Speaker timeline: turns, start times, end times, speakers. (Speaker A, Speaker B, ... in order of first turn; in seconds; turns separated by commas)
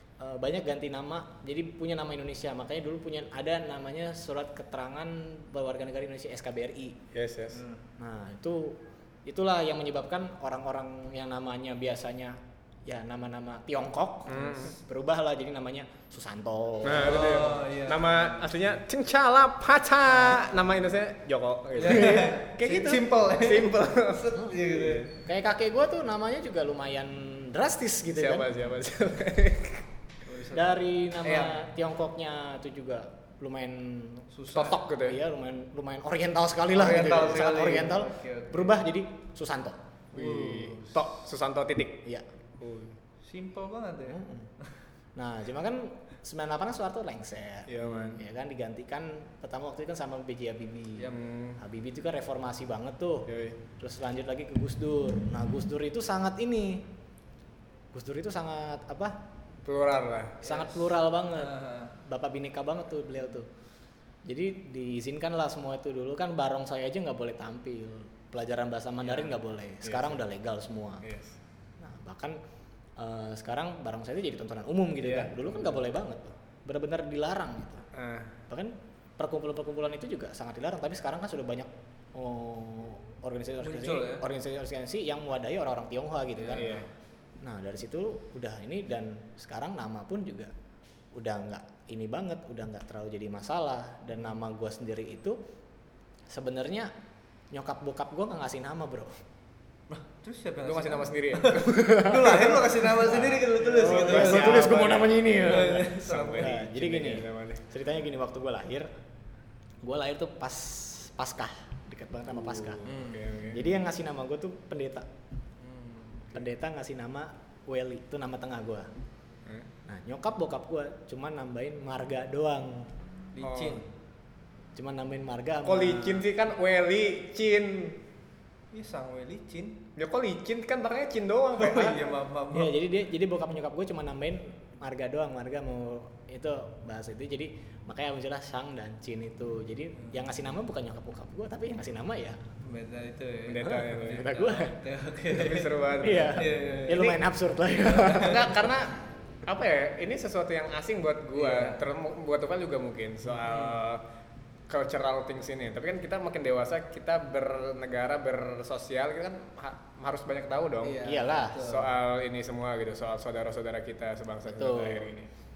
Speaker A: 0.2-7.0, Speaker B: 7.1-7.6, Speaker C: 7.5-7.8, Speaker A: 8.0-17.4, Speaker B: 14.3-14.7, Speaker B: 16.8-22.3, Speaker C: 17.0-18.4, Speaker C: 21.8-25.1, Speaker A: 21.8-23.1, Speaker B: 23.4-25.1, Speaker A: 25.1-28.5, Speaker B: 28.1-29.8, Speaker C: 30.2-31.7, Speaker A: 30.5-39.8, Speaker C: 34.3-34.8, Speaker B: 34.5-35.2, Speaker C: 36.7-38.7, Speaker C: 40.1-41.1, Speaker B: 40.1-42.0, Speaker B: 42.6-42.9, Speaker C: 43.2-44.2, Speaker A: 44.1-44.5, Speaker A: 45.1-53.3, Speaker B: 47.7-48.2, Speaker B: 51.1-51.6, Speaker B: 53.3-53.6, Speaker A: 53.8-56.9, Speaker A: 57.9-59.2, Speaker B: 59.6-60.4, Speaker A: 60.4-63.5, Speaker C: 60.4-61.9, Speaker A: 64.2-71.0, Speaker C: 69.0-69.3, Speaker B: 69.8-70.2, Speaker B: 71.0-71.4, Speaker A: 71.8-72.4, Speaker A: 73.0-77.8, Speaker B: 75.0-75.8, Speaker B: 77.9-78.3, Speaker A: 78.5-86.8, Speaker C: 83.6-84.2, Speaker C: 86.4-86.8, Speaker B: 86.5-86.9, Speaker A: 87.4-90.5, Speaker A: 91.1-95.4, Speaker A: 96.3-96.9, Speaker A: 97.5-99.1, Speaker C: 99.9-106.6, Speaker B: 100.6-102.2, Speaker A: 101.7-108.9, Speaker B: 103.2-107.7, Speaker A: 109.8-112.8, Speaker B: 112.3-113.6, Speaker C: 112.8-113.3, Speaker A: 113.5-115.1, Speaker C: 115.6-116.2, Speaker A: 116.3-118.9, Speaker A: 119.9-122.9, Speaker C: 123.3-123.9, Speaker B: 123.4-123.8, Speaker A: 124.8-126.2, Speaker B: 125.6-128.0, Speaker C: 128.7-129.8, Speaker B: 129.9-132.0, Speaker C: 131.6-132.8, Speaker A: 132.5-142.4, Speaker C: 142.6-148.6, Speaker B: 143.4-144.6, Speaker A: 143.6-144.8, Speaker B: 145.3-146.4, Speaker A: 146.0-148.7, Speaker B: 148.1-154.0, Speaker C: 151.3-151.8, Speaker C: 153.3-153.8, Speaker B: 154.7-161.0, Speaker C: 160.8-161.9, Speaker A: 161.0-161.6, Speaker B: 161.6-165.3, Speaker A: 164.5-165.1